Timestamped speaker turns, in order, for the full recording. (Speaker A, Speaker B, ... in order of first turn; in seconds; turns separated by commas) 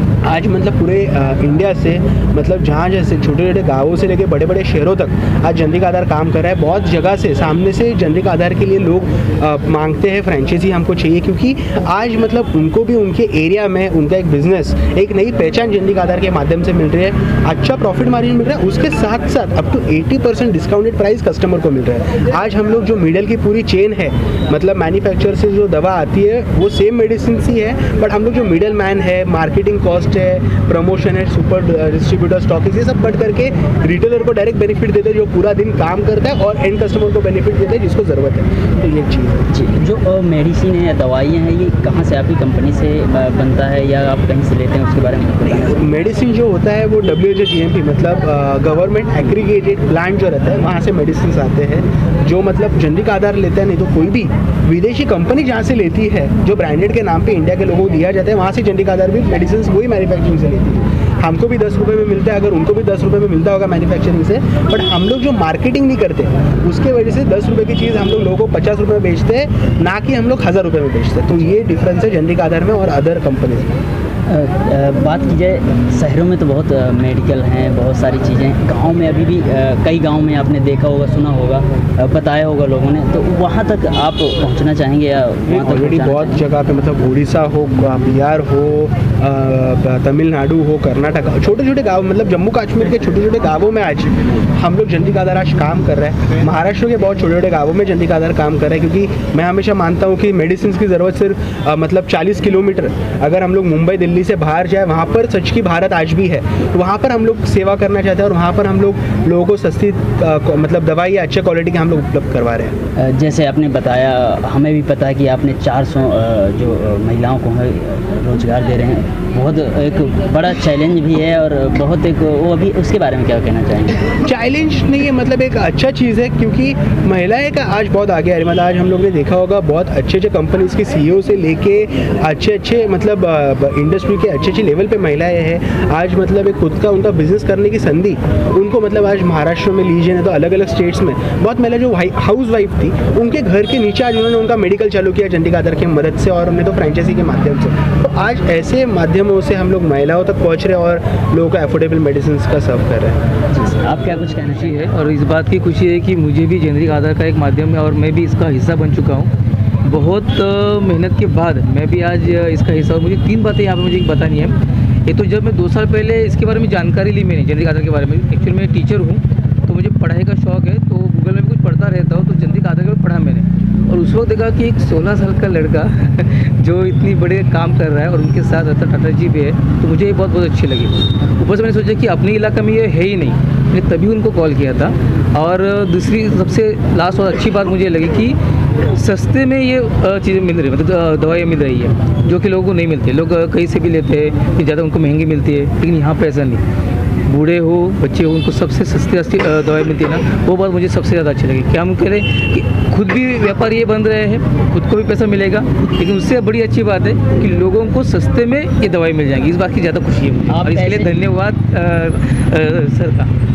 Speaker A: 0.2-39.4, Speaker B: 39.5-45.9, Speaker A: 45.6-73.7, Speaker B: 74.3-86.4, Speaker A: 85.5-112.7, Speaker B: 113.0-124.0, Speaker A: 124.2-153.2, Speaker B: 153.5-154.9, Speaker C: 154.5-159.3, Speaker C: 159.8-164.5, Speaker C: 165.1-188.4, Speaker C: 188.9-196.6, Speaker C: 197.3-213.3, Speaker B: 210.5-211.1